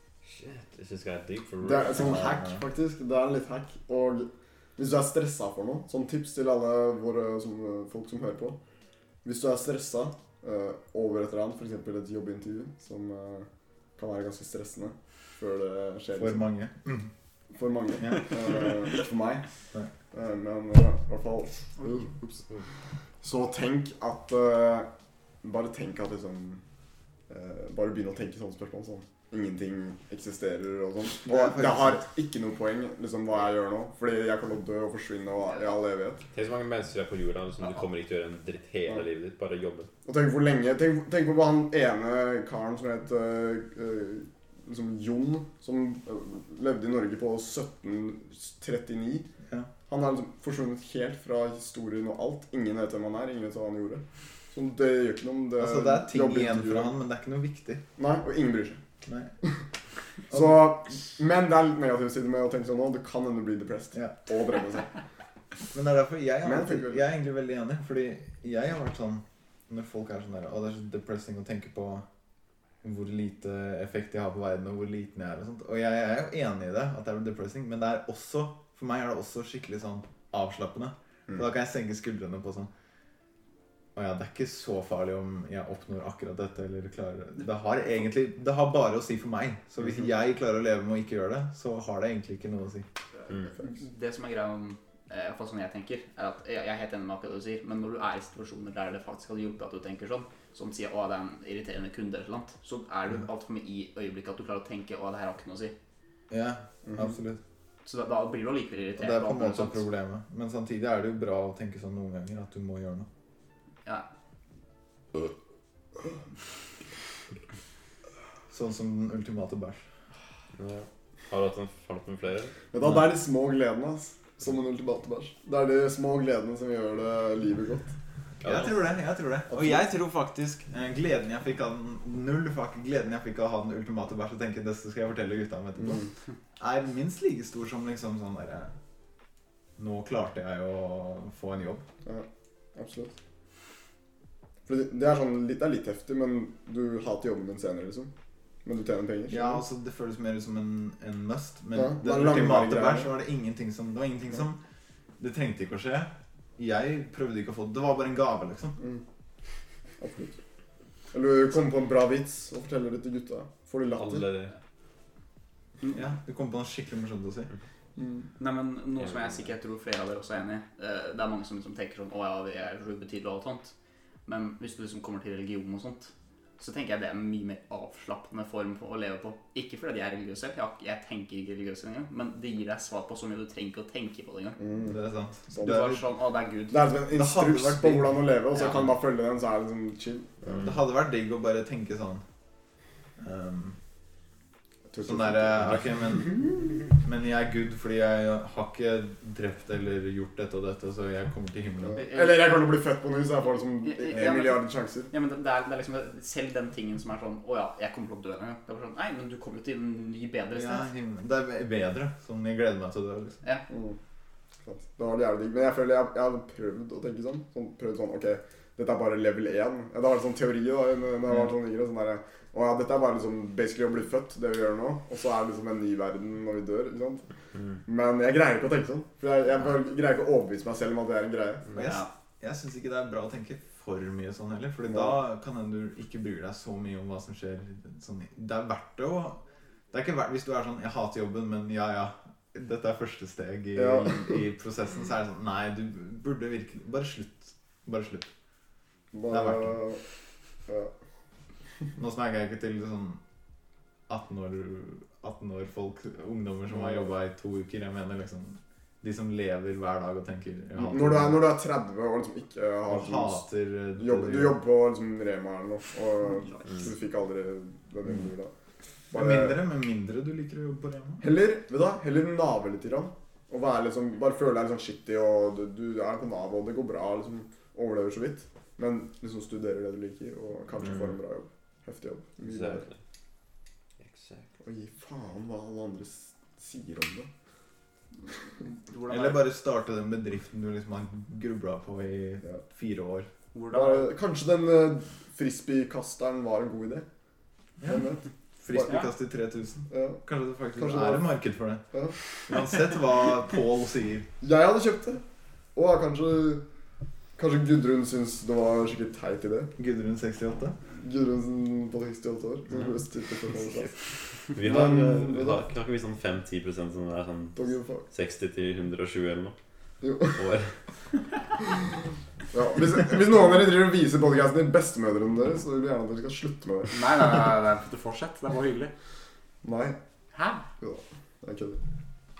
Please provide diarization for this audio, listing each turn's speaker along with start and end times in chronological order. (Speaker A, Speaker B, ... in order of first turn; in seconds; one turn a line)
Speaker A: 0.2-2.2
Speaker B: 1.6-8.6
Speaker C: 1.9-2.6
Speaker B: 9.2-16.4
Speaker C: 16.1-17.1
Speaker B: 17.5-19.5
Speaker C: 18.0-18.2
Speaker B: 20.1-22.4
Speaker D: 21.8-22.0
Speaker B: 23.2-24.9
Speaker B: 25.4-26.6
Speaker B: 27.3-36.2
Speaker C: 31.2-32.0
Speaker A: 36.3-39.9
Speaker B: 40.0-49.3
Speaker B: 49.9-56.9
Speaker C: 55.6-57.8
Speaker B: 58.0-58.8
Speaker C: 59.0-59.3
Speaker B: 60.3-64.9
Speaker C: 60.3-60.6
Speaker C: 65.7-72.0
Speaker B: 66.4-67.0
Speaker C: 72.8-82.7
Speaker C: 83.9-92.8
Speaker D: 93.6-105.7
Speaker C: 106.3-107.4
Speaker B: 106.8-107.1
Speaker D: 107.8-109.8
Speaker C: 109.0-113.1
Speaker C: 118.5-119.8
Speaker A: 120.5-122.6
Speaker B: 122.7-127.9
Speaker C: 122.8-123.1
Speaker A: 128.4-128.8
Speaker C: 128.4-136.0
Speaker B: 129.5-129.8
Speaker B: 135.8-136.1
Speaker C: 136.6-138.7
Speaker C: 139.8-141.8
Speaker B: 142.0-143.2
Speaker B: 144.7-148.1
Speaker B: 148.6-149.6
Speaker C: 149.3-154.6
Speaker B: 151.7-153.1
Speaker C: 155.2-158.8
Speaker B: 160.0-160.4
Speaker B: 161.1-164.3
Speaker A: 163.9-164.5
Speaker C: 165.9-167.5
Speaker B: 168.0-168.3
Speaker D: 168.4-173.7
Speaker A: 169.1-169.4
Speaker D: 174.2-184.6
Speaker B: 184.6-185.0
Speaker C: 184.9-186.0
Speaker D: 185.5-186.8
Speaker B: 185.6-185.9
Speaker B: 186.7-190.7
Speaker C: 187.1-188.2
Speaker D: 188.5-188.9
Speaker C: 190.5-192.2
Speaker C: 193.2-193.8
Speaker B: 194.9-195.8
Speaker C: 195.0-202.0
Speaker B: 201.8-205.1
Speaker D: 202.0-202.6
Speaker D: 203.8-210.9
Speaker C: 210.5-213.4
Speaker B: 213.7-214.0
Speaker B: 214.6-227.2
Speaker B: 227.8-231.7
Speaker C: 231.7-239.4
Speaker D: 231.8-232.1
Speaker B: 234.9-235.2
Speaker C: 239.9-248.3
Speaker B: 243.8-244.4
Speaker B: 249.1-250.0
Speaker C: 249.3-249.8
Speaker B: 250.7-250.9
Speaker C: 251.9-253.2
Speaker C: 254.1-261.4
Speaker B: 256.7-257.1
Speaker B: 260.8-263.4
Speaker C: 262.9-264.6
Speaker B: 264.0-268.5
Speaker B: 269.1-269.6
Speaker C: 269.1-271.2
Speaker B: 271.2-282.9
Speaker A: 282.4-283.0
Speaker A: 284.0-284.5
Speaker B: 284.6-287.3
Speaker D: 288.7-289.4
Speaker C: 289.1-293.3
Speaker D: 293.5-294.1
Speaker B: 293.7-297.1
Speaker B: 297.8-299.0
Speaker C: 298.6-301.8
Speaker D: 298.8-299.1
Speaker B: 299.9-300.2
Speaker B: 300.8-301.2
Speaker B: 301.9-302.2
Speaker C: 302.4-304.3
Speaker B: 304.4-305.2
Speaker B: 305.7-306.6
Speaker B: 307.4-309.7
Speaker C: 309.8-310.8
Speaker B: 311.0-313.9
Speaker A: 314.5-319.6
Speaker B: 314.6-315.7
Speaker B: 317.6-318.0
Speaker B: 320.0-320.4
Speaker A: 320.3-320.7
Speaker B: 322.5-326.9
Speaker D: 326.9-328.9
Speaker B: 329.6-330.0
Speaker D: 330.3-330.6
Speaker B: 330.8-331.8